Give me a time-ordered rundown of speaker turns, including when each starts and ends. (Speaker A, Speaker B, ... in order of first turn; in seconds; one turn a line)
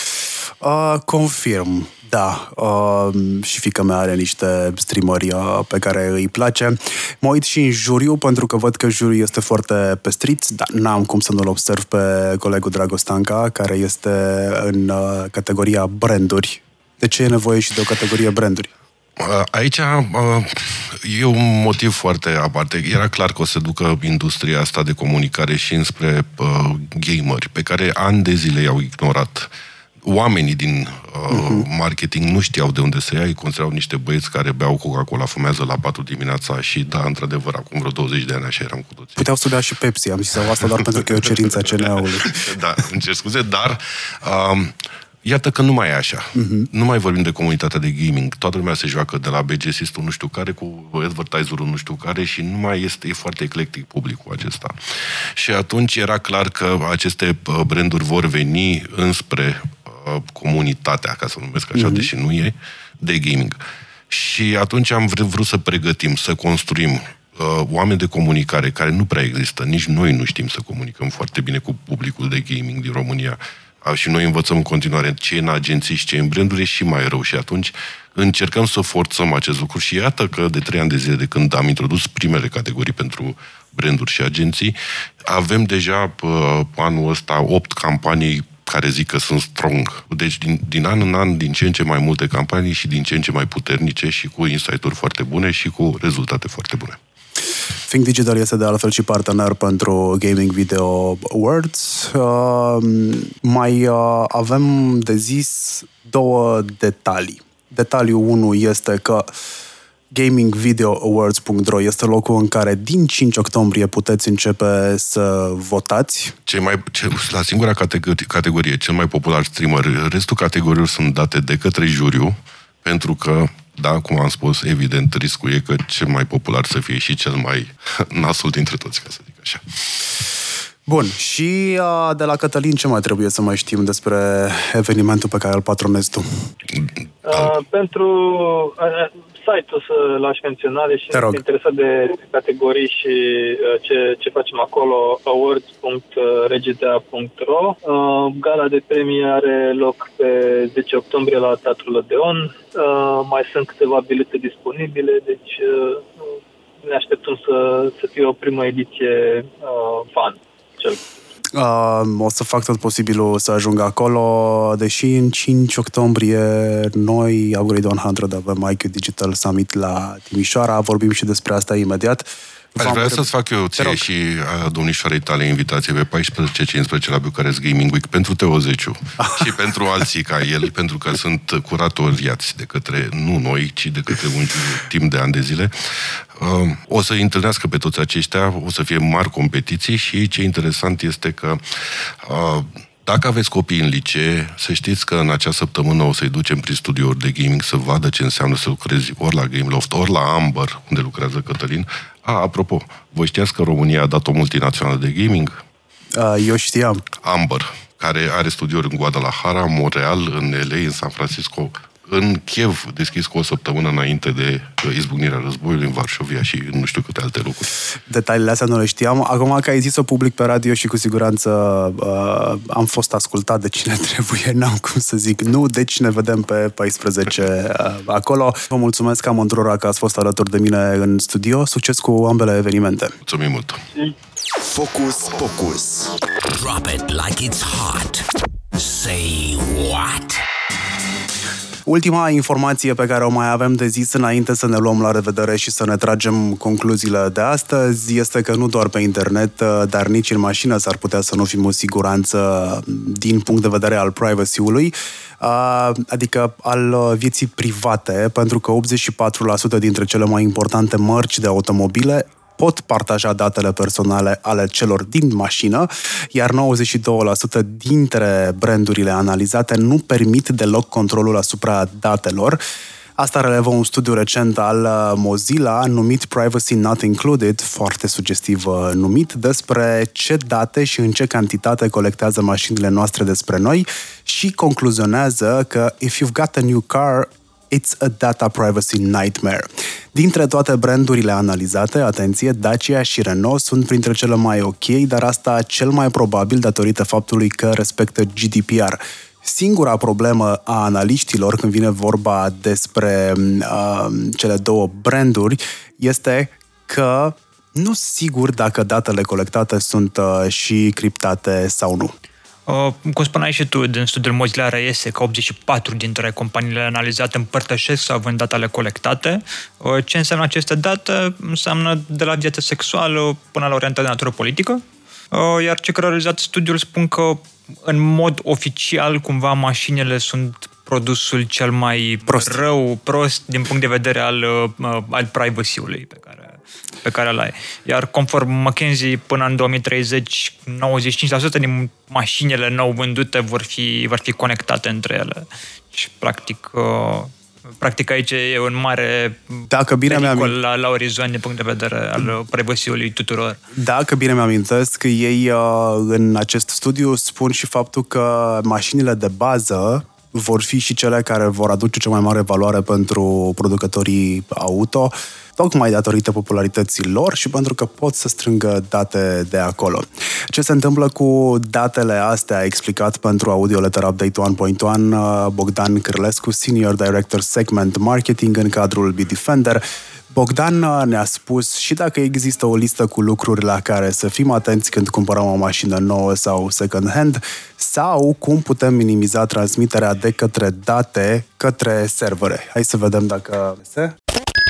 Speaker A: 0.6-18.7
Speaker B: 19.2-29.5
Speaker B: 30.0-39.2
Speaker A: 31.3-31.7
Speaker A: 39.2-42.5
Speaker B: 42.2-63.6
Speaker A: 46.3-46.7
Speaker A: 61.7-62.1
Speaker B: 64.1-97.0
Speaker A: 97.8-109.3
Speaker A: 110.1-116.3
Speaker B: 116.5-130.1
Speaker A: 130.9-136.2
Speaker C: 137.2-156.2
Speaker A: 141.1-141.4
Speaker C: 156.8-161.0
Speaker A: 161.5-174.0
Speaker B: 172.8-205.5
Speaker A: 206.1-207.0
Speaker B: 207.2-217.7
Speaker A: 218.1-233.1
Speaker B: 233.2-233.8
Speaker D: 234.7-238.2
Speaker D: 238.7-240.4
Speaker A: 241.8-272.6
Speaker A: 273.2-312.1
Speaker E: 312.7-353.6
Speaker A: 332.3-332.6
Speaker A: 349.7-350.6
Speaker A: 353.8-394.1